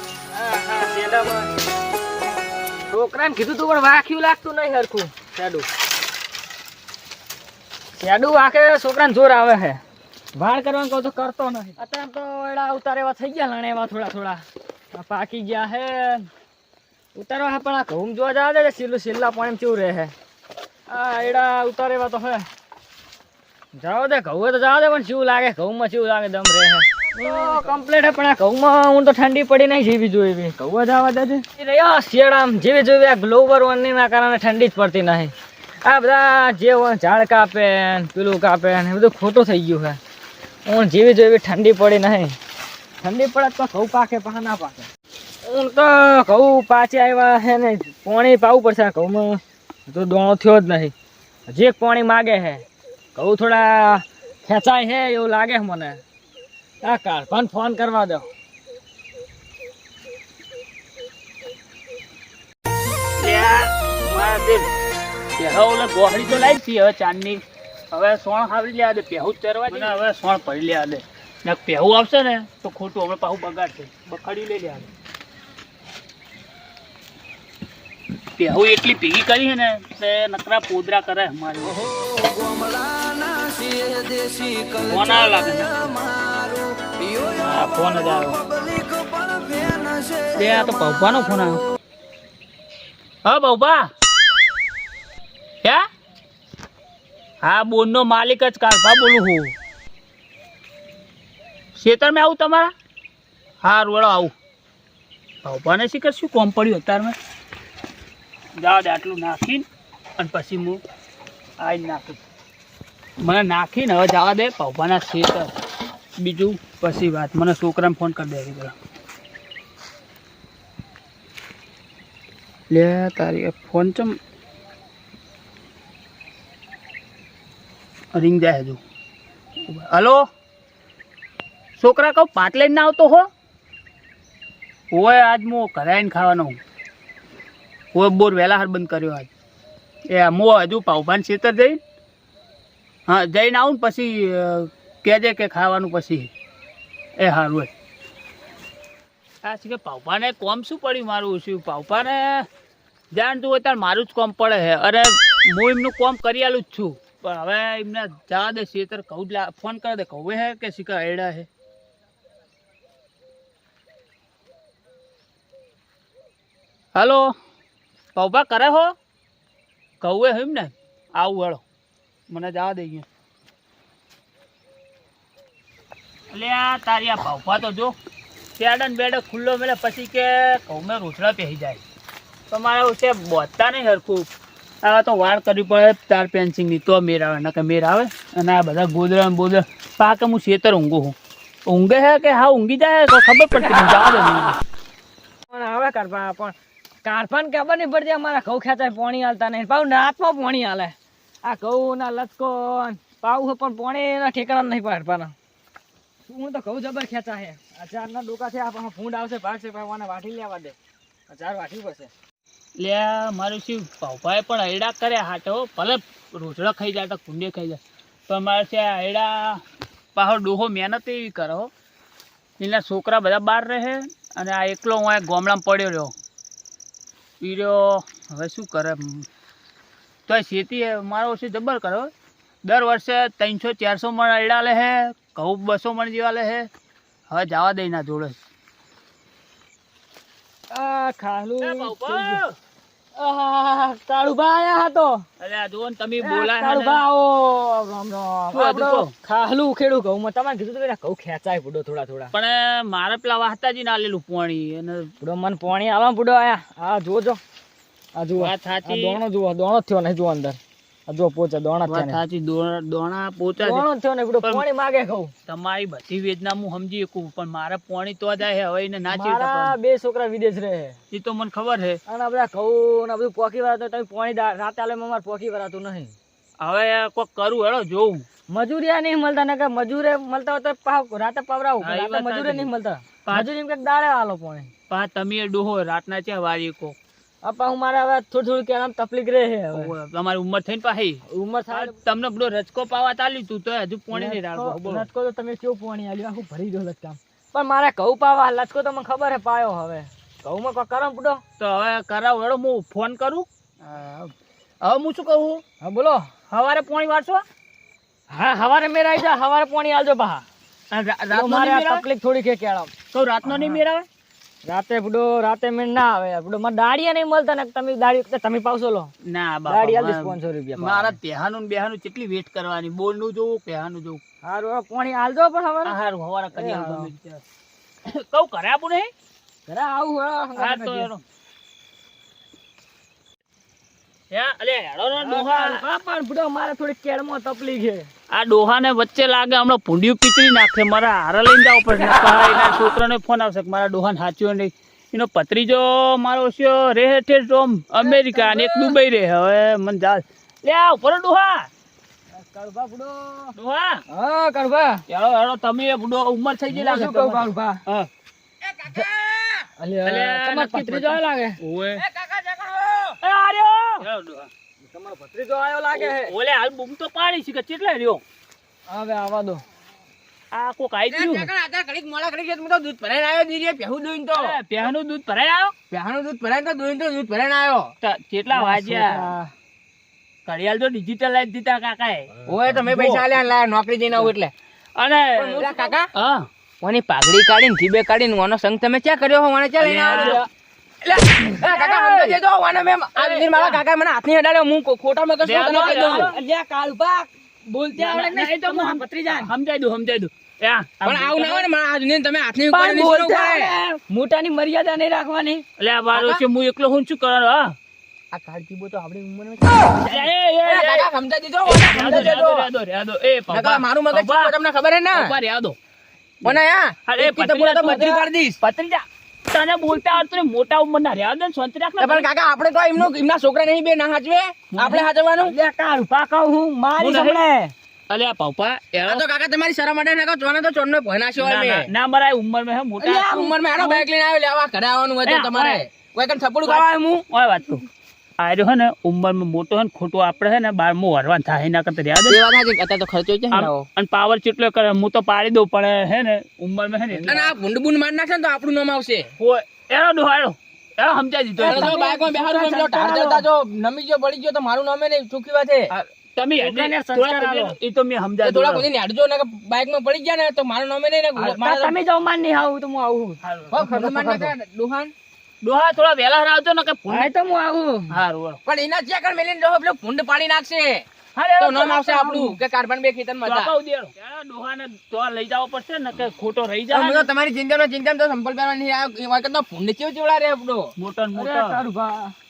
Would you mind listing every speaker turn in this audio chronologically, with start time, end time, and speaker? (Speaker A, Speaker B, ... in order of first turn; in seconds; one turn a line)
Speaker A: 0.3-1.5
Speaker A: 2.9-5.7
Speaker A: 8.0-9.8
Speaker A: 10.4-16.3
Speaker A: 17.2-20.1
Speaker A: 20.9-22.4
Speaker A: 23.8-35.3
Speaker A: 35.8-40.0
Speaker A: 40.7-42.4
Speaker A: 43.0-44.9
Speaker A: 45.4-50.9
Speaker A: 51.5-52.6
Speaker A: 53.1-56.0
Speaker A: 56.8-58.3
Speaker B: 63.2-64.7
Speaker B: 65.4-74.9
Speaker A: 69.7-70.0
Speaker B: 78.4-82.0
Speaker B: 84.7-86.0
Speaker B: 87.4-88.4
Speaker B: 90.3-91.6
Speaker B: 93.2-93.8
Speaker B: 97.4-99.5
Speaker B: 101.8-102.7
Speaker B: 103.6-104.3
Speaker B: 105.4-107.2
Speaker B: 108.6-109.7
Speaker B: 110.2-110.8
Speaker B: 111.6-112.2
Speaker B: 113.2-115.5
Speaker B: 116.2-118.8
Speaker B: 122.7-124.2
Speaker B: 128.1-128.8
Speaker B: 129.7-130.2
Speaker B: 131.8-133.3
Speaker B: 134.9-136.6
Speaker B: 137.9-139.3
Speaker B: 140.1-141.8
Speaker B: 143.1-146.3
Speaker B: 147.2-147.7
Speaker B: 149.4-152.5
Speaker B: 153.1-161.5
Speaker B: 166.9-167.3
Speaker B: 168.2-168.9
Speaker B: 170.0-171.6
Speaker B: 172.3-173.1
Speaker B: 176.3-177.9
Speaker B: 178.6-181.8
Speaker B: 182.5-184.3
Speaker B: 184.8-191.2
Speaker B: 191.7-194.6
Speaker A: 195.5-205.3
Speaker A: 206.3-210.8
Speaker A: 211.3-212.1
Speaker B: 212.8-219.6
Speaker B: 220.2-221.7
Speaker B: 222.6-226.1
Speaker B: 227.4-229.3
Speaker B: 230.3-232.1
Speaker B: 232.7-236.7
Speaker B: 237.3-238.4
Speaker A: 240.7-242.4
Speaker B: 241.6-242.5
Speaker A: 243.2-245.2
Speaker B: 245.4-247.0
Speaker A: 246.2-252.3
Speaker B: 248.5-249.1
Speaker B: 252.3-255.1
Speaker A: 255.2-257.4
Speaker A: 258.2-262.2
Speaker B: 258.4-259.2
Speaker B: 261.9-263.9
Speaker A: 263.6-265.3
Speaker B: 265.5-269.8
Speaker A: 269.1-271.0
Speaker B: 271.1-272.0
Speaker A: 272.1-276.1
Speaker B: 276.6-278.3
Speaker A: 278.5-284.7
Speaker B: 281.8-282.7
Speaker B: 284.9-286.9
Speaker A: 287.4-289.9
Speaker B: 289.7-295.1
Speaker A: 291.3-291.9
Speaker A: 294.1-301.4
Speaker B: 301.6-304.3
Speaker B: 304.8-305.6
Speaker A: 305.8-306.3
Speaker B: 306.5-307.4
Speaker A: 308.3-310.5
Speaker B: 310.9-312.0
Speaker A: 311.3-312.9
Speaker B: 313.1-314.1
Speaker A: 313.5-313.8
Speaker A: 314.7-319.1
Speaker B: 319.3-324.2
Speaker A: 319.7-321.2
Speaker A: 324.4-326.0
Speaker B: 325.9-327.4
Speaker A: 326.6-327.1
Speaker B: 328.1-329.1
Speaker A: 329.7-331.1
Speaker B: 330.6-331.2
Speaker B: 334.3-335.8
Speaker A: 335.2-338.1
Speaker B: 338.3-351.7
Speaker A: 348.0-348.9
Speaker A: 352.3-353.5
Speaker B: 353.6-354.0
Speaker A: 354.1-355.0
Speaker B: 355.1-358.1
Speaker A: 356.7-357.8
Speaker C: 358.6-359.7
Speaker A: 359.8-361.6
Speaker B: 360.1-362.1
Speaker C: 362.0-363.2
Speaker A: 363.2-364.0
Speaker B: 364.0-364.5
Speaker A: 364.9-366.3
Speaker B: 365.9-368.2
Speaker A: 368.9-369.6
Speaker B: 370.5-371.5
Speaker C: 371.1-374.6
Speaker B: 374.4-375.7
Speaker C: 375.9-377.9
Speaker B: 378.0-379.3
Speaker A: 378.5-379.5
Speaker B: 380.5-382.3
Speaker C: 382.5-384.5
Speaker B: 382.9-383.3
Speaker B: 385.0-386.5
Speaker C: 385.4-386.1
Speaker C: 386.8-390.4
Speaker B: 389.8-390.4
Speaker A: 390.1-390.5
Speaker C: 391.6-396.3
Speaker B: 391.7-392.4
Speaker B: 393.2-393.8
Speaker B: 395.4-396.4
Speaker A: 395.6-399.5
Speaker B: 398.0-401.7
Speaker C: 401.0-403.7
Speaker A: 402.7-405.6
Speaker B: 405.8-407.8
Speaker C: 406.1-406.4
Speaker C: 408.3-412.7
Speaker B: 410.0-411.1
Speaker B: 411.6-414.6
Speaker C: 413.5-415.3
Speaker B: 415.1-415.8
Speaker B: 416.4-422.3
Speaker C: 416.4-418.6
Speaker C: 422.0-425.5
Speaker B: 424.7-425.1
Speaker A: 425.4-427.7
Speaker B: 427.0-427.4
Speaker B: 428.1-429.2
Speaker C: 429.0-431.9
Speaker B: 431.4-433.3
Speaker A: 433.0-434.0
Speaker C: 433.1-437.2
Speaker B: 435.2-435.8
Speaker B: 436.7-437.9
Speaker B: 438.4-442.4
Speaker C: 442.3-443.9
Speaker B: 443.5-447.5
Speaker C: 447.1-449.3
Speaker B: 449.4-452.0
Speaker A: 451.6-453.5
Speaker C: 451.6-455.9
Speaker B: 456.4-458.9
Speaker A: 456.6-457.8
Speaker C: 458.4-462.0
Speaker A: 461.4-464.5
Speaker B: 463.4-463.7
Speaker C: 463.7-465.1
Speaker B: 465.6-467.3
Speaker A: 467.1-468.1
Speaker B: 468.1-468.6
Speaker C: 468.7-471.1
Speaker B: 471.4-472.2
Speaker C: 471.6-473.7
Speaker A: 472.2-472.6
Speaker B: 473.5-477.3
Speaker C: 476.9-480.9
Speaker B: 481.0-481.8
Speaker A: 481.4-482.4